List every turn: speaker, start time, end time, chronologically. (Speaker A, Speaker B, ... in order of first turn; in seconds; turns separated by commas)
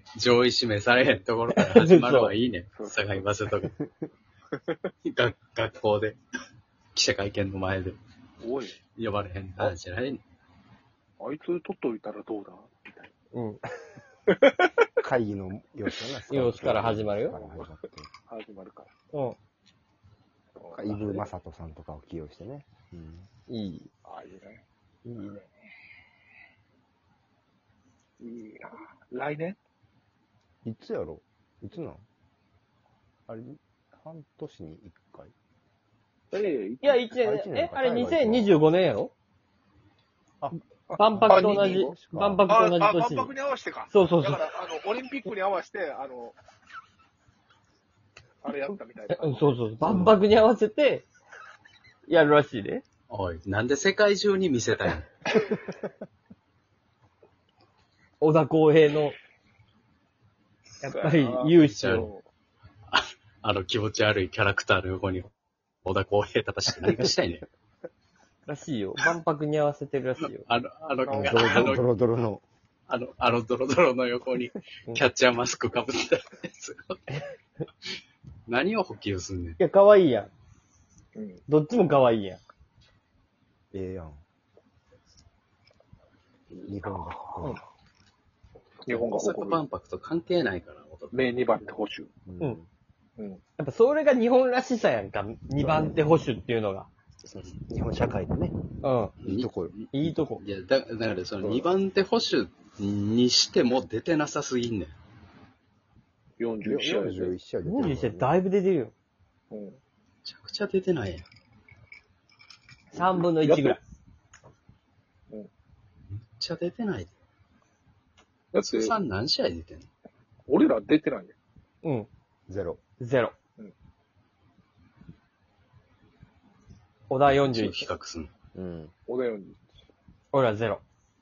Speaker A: 0.2-3.7, Speaker B: 1.5-2.4, Speaker C: 2.7-3.3, Speaker A: 5.0-6.2, Speaker A: 6.9-8.0, Speaker C: 8.4-8.8, Speaker A: 8.9-10.2, Speaker C: 11.2-13.1, Speaker B: 13.3-13.6, Speaker C: 14.3-14.7, Speaker D: 15.0-18.1, Speaker B: 16.3-17.4, Speaker C: 17.4-17.7, Speaker C: 18.3-18.9, Speaker C: 20.6-21.2, Speaker D: 20.7-23.3, Speaker B: 23.5-23.9, Speaker C: 24.1-24.6, Speaker B: 25.1-25.4, Speaker C: 28.2-29.6, Speaker D: 30.6-32.0, Speaker D: 33.3-35.3, Speaker C: 36.3-37.1, Speaker B: 36.8-39.1, Speaker D: 37.1-38.5, Speaker D: 40.4-42.5, Speaker C: 40.9-41.9, Speaker B: 40.9-43.3, Speaker C: 42.5-46.4, Speaker B: 43.9-44.5, Speaker C: 48.4-50.0, Speaker B: 49.1-51.1, Speaker D: 49.8-50.2, Speaker B: 52.1-52.8, Speaker A: 53.1-55.1, Speaker B: 58.2-59.1, Speaker B: 60.8-62.1, Speaker C: 60.8-62.3, Speaker A: 61.6-62.1, Speaker A: 62.9-65.3, Speaker A: 65.8-67.5, Speaker B: 68.5-70.5, Speaker A: 70.5-71.8, Speaker C: 71.0-71.7, Speaker D: 71.1-72.4, Speaker A: 72.9-77.2, Speaker A: 78.5-79.6, Speaker B: 79.6-80.3, Speaker C: 81.2-81.4, Speaker B: 81.5-82.4, Speaker D: 83.7-84.2, Speaker D: 86.6-87.6, Speaker C: 88.8-89.6, Speaker A: 88.9-91.5, Speaker C: 91.1-92.1, Speaker D: 92.3-92.7, Speaker B: 93.6-96.9, Speaker D: 95.6-96.1, Speaker D: 97.3-98.6, Speaker B: 98.8-99.2, Speaker D: 99.2-99.8, Speaker A: 99.2-104.9, Speaker B: 99.9-100.4, Speaker C: 106.4-107.4, Speaker D: 106.7-108.4, Speaker B: 107.7-108.9, Speaker C: 109.5-109.8, Speaker A: 110.2-111.3, Speaker C: 112.9-113.8, Speaker B: 112.9-113.8, Speaker A: 116.1-117.1, Speaker C: 118.5-119.0, Speaker A: 118.6-119.9, Speaker C: 120.5-121.3, Speaker B: 121.8-122.1, Speaker D: 122.5-122.8, Speaker B: 123.0-123.3, Speaker B: 127.1-127.9, Speaker A: 127.3-128.3, Speaker D: 128.6-128.9, Speaker C: 129.1-129.6, Speaker B: 130.3-130.8